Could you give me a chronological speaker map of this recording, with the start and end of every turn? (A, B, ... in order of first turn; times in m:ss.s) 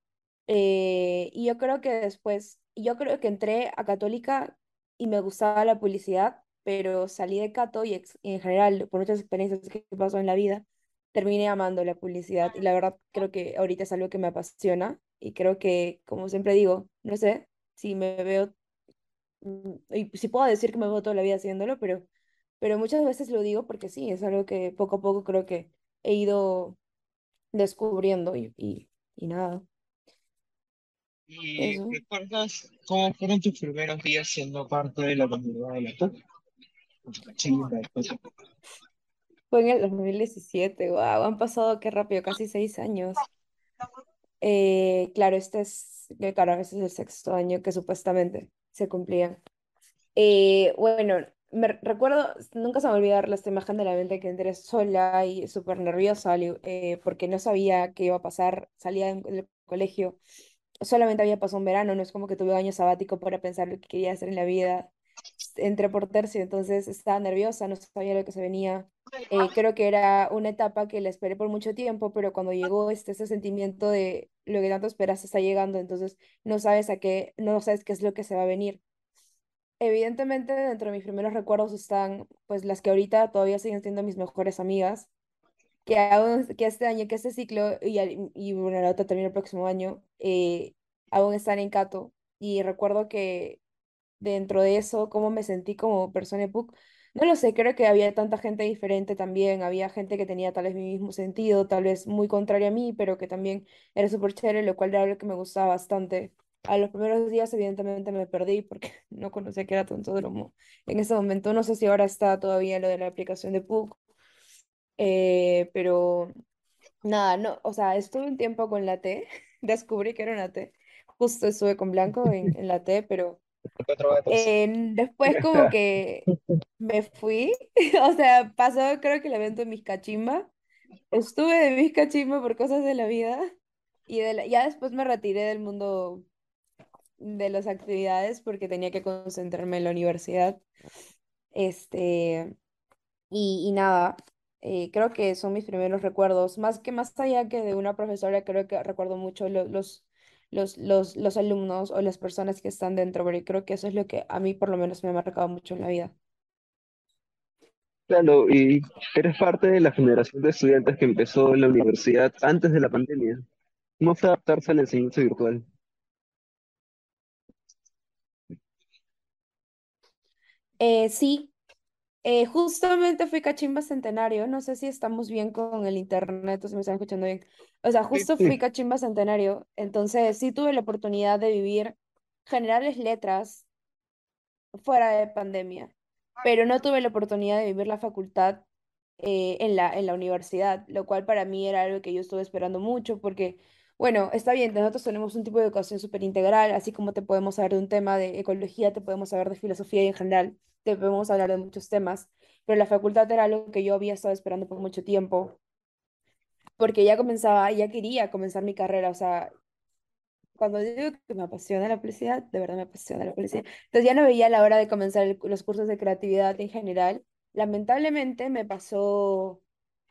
0:00.5-0:18.5 A
0:19.4-0:22.1 A
0:22.6-0:26.8 A
0:27.5-0:29.7 A
0:31.3-0:36.1 B
0:31.6-0:32.0 A
0:37.1-0:38.2 B
0:39.5-0:43.2 A
0:44.4-0:49.4 A
0:50.2-1:00.2 A
1:00.8-1:04.9 A
1:05.4-1:18.8 A
1:19.8-1:25.1 A
1:25.8-1:33.6 A
1:34.2-1:54.0 A
1:55.0-1:56.3 A
1:57.0-2:03.4 A
2:03.8-2:04.5 B
2:04.3-2:06.3 A
2:06.8-2:10.5 A
2:11.1-2:13.4 A
2:14.1-2:16.3 A
2:17.2-2:20.6 A
2:21.5-2:22.6 A
2:23.3-2:36.2 A
2:38.1-2:43.4 C
2:44.0-2:45.7 C
2:50.8-2:51.5 A
2:52.2-3:03.7 A
2:58.2-2:58.6 C
3:04.8-3:08.6 A
3:09.2-3:25.6 A
3:26.8-3:29.5 A
3:30.6-3:39.6 A